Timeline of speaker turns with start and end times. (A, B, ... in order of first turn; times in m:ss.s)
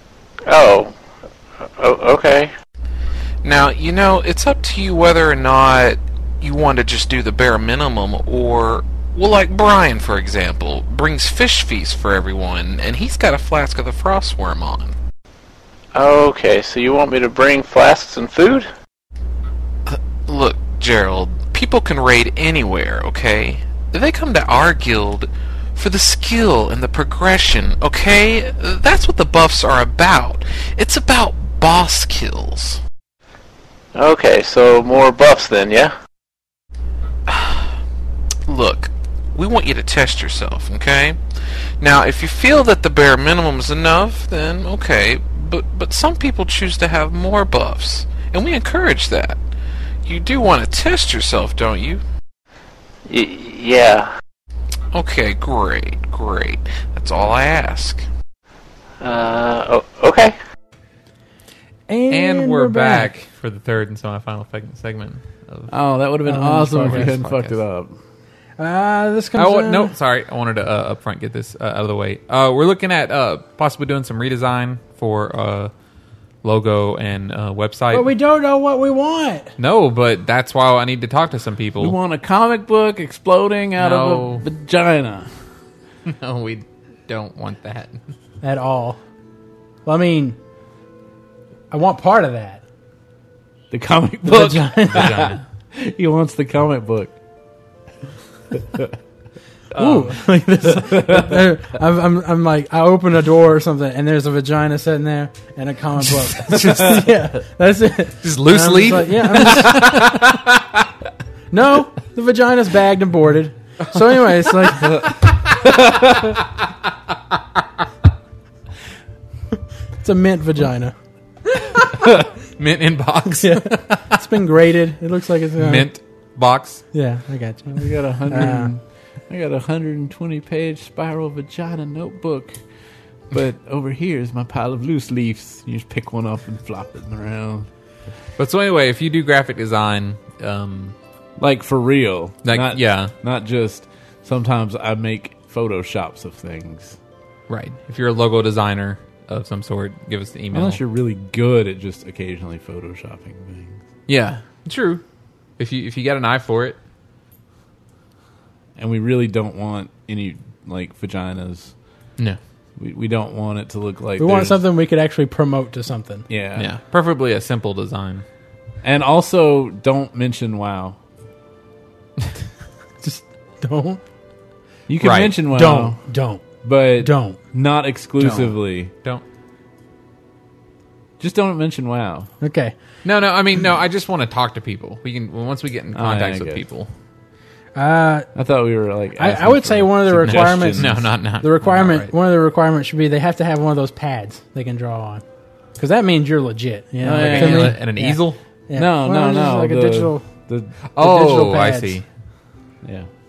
0:00.5-0:00.9 A
0:01.8-0:02.5 A
0:03.4-0:15.0 B
0:16.0-0:18.7 A
0:19.9-0:32.8 B
0:34.0-0:35.9 A
0:37.3-0:37.7 B
0:38.5-0:41.2 B
0:41.8-0:49.4 B
0:50.0-0:52.0 B
0:53.1-0:54.1 A
0:54.9-0:58.0 B
0:59.0-1:00.4 A
1:01.9-1:03.1 C
1:02.1-1:05.7 D
1:05.7-1:08.0 E
1:06.3-1:07.1 C
1:06.7-1:07.6 D
1:08.6-1:10.0 C
1:09.4-1:15.7 D
1:16.4-1:18.1 D
1:17.9-1:19.5 C
1:19.6-1:22.0 D
1:21.8-1:25.3 E
1:23.8-1:24.4 D
1:26.1-1:28.0 D
1:28.4-1:29.0 C
1:29.9-1:30.4 C
1:31.7-1:32.6 C
1:33.7-1:37.1 E
1:34.2-1:35.4 C
1:34.9-1:35.4 D
1:38.5-1:38.9 E
1:39.7-1:40.2 D
1:39.7-1:50.3 C
1:40.8-1:41.4 E
1:46.3-1:47.1 D
1:48.2-1:50.8 D
1:51.5-1:55.1 C
1:54.8-1:56.4 D
1:55.6-1:56.4 E
2:00.0-2:01.0 C
2:01.7-2:04.2 D
2:03.4-2:05.9 C
2:05.6-2:06.8 D
2:06.9-2:08.7 C
2:07.8-2:12.6 E
2:13.3-2:17.7 E
2:18.4-2:21.0 D
2:21.4-2:27.0 E
2:22.4-2:23.1 D
2:27.5-2:30.8 D
2:30.5-2:33.8 E
2:34.1-2:35.0 D
2:35.6-2:36.8 D
2:38.8-2:41.7 E
2:42.8-2:44.6 E
2:44.2-2:46.3 C
2:46.3-2:46.7 E
2:46.6-2:48.2 D
2:48.8-2:51.0 E
2:53.0-2:54.0 C
2:54.9-2:56.0 E
2:55.0-2:55.4 D
2:55.5-2:56.4 C
2:56.6-2:58.9 E
2:57.0-2:57.4 C
2:58.2-2:59.2 D
3:01.2-3:02.3 E
3:02.4-3:02.7 C
3:03.0-3:06.9 D
3:05.9-3:06.6 E
3:07.7-3:08.3 C
3:08.4-3:11.1 E
3:09.1-3:15.2 C
3:10.3-3:12.1 D
3:15.8-3:20.3 C
3:17.0-3:17.8 E
3:17.2-3:18.4 D
3:18.7-3:20.7 E
3:20.9-3:22.0 D
3:21.0-3:22.0 C
3:22.8-3:23.1 E